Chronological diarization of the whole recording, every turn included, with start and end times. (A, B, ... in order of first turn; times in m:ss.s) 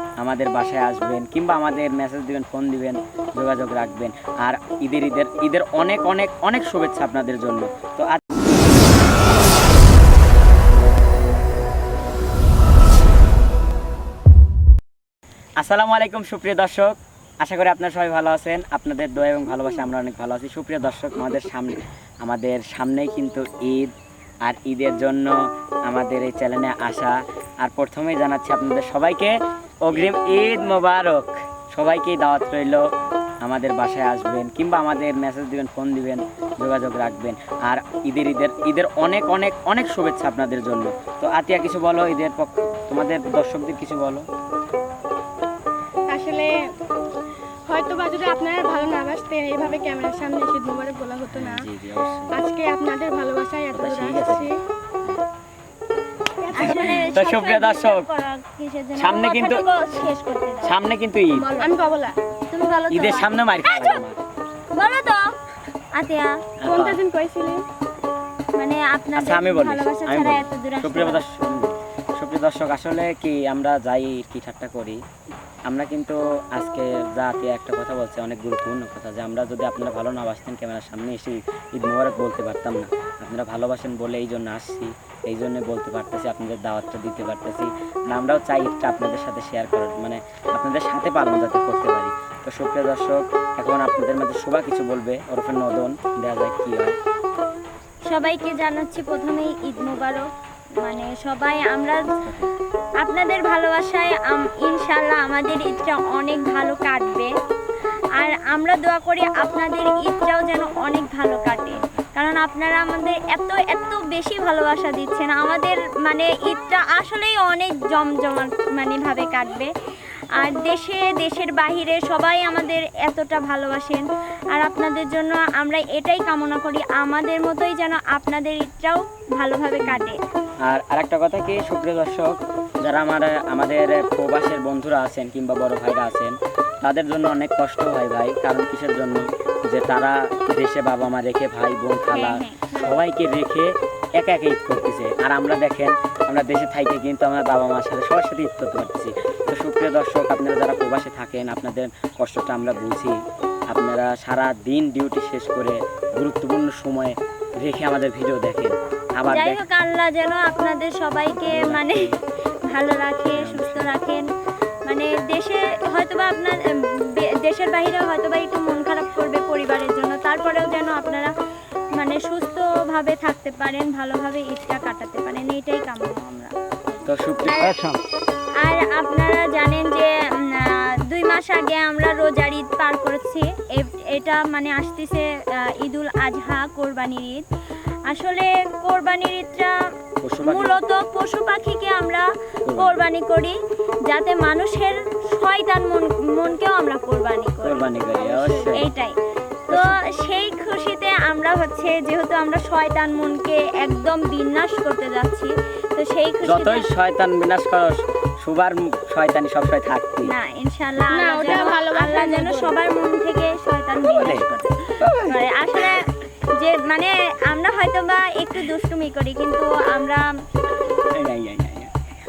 0:00.2-0:08.2 A
0:15.6-0:23.9 A
0:24.4-0:32.8 A
0:33.4-0:44.3 A
0:46.1-0:46.6 B
0:47.7-0:51.6 B
0:51.3-0:52.3 A
0:52.3-0:54.6 B
0:53.7-0:54.5 A
0:56.4-0:57.0 B
0:56.5-1:00.8 C
0:56.6-0:58.1 A
0:59.0-0:59.6 A
1:00.6-1:01.5 A
1:01.4-1:02.2 B
1:02.5-1:04.0 C
1:02.9-1:04.2 A
1:04.7-1:05.2 C
1:05.9-1:06.4 C
1:06.6-1:07.0 A
1:06.6-1:07.6 B
1:08.6-1:11.2 C
1:09.2-1:15.0 A
1:15.7-1:37.0 A
1:38.1-1:40.3 C
1:40.8-1:42.1 C
1:42.2-1:42.5 A
1:43.0-1:47.3 C
1:48.2-1:59.7 C
2:00.4-2:10.2 C
2:09.8-2:10.1 A
2:10.6-2:33.2 A
2:22.1-2:23.0 C
2:33.7-2:39.6 A
2:39.3-2:42.1 C
2:41.3-2:42.2 A
2:42.7-2:44.3 C
2:43.2-2:43.9 A
2:44.8-2:51.3 C
2:51.9-2:57.8 C
2:57.0-2:58.0 A
2:58.6-3:07.5 C
3:08.1-3:09.8 C
3:10.2-3:10.8 A
3:10.4-3:17.9 C
3:12.7-3:13.0 A
3:17.6-3:18.9 A
3:18.1-3:18.9 B
3:18.6-3:19.2 C
3:19.7-3:20.0 A
3:19.7-3:26.9 C
3:26.4-3:30.3 A
3:30.3-3:40.3 C
3:31.1-3:32.8 B
3:31.4-3:31.8 A
3:34.0-3:34.5 A
3:35.0-3:35.4 A
3:41.1-3:41.9 A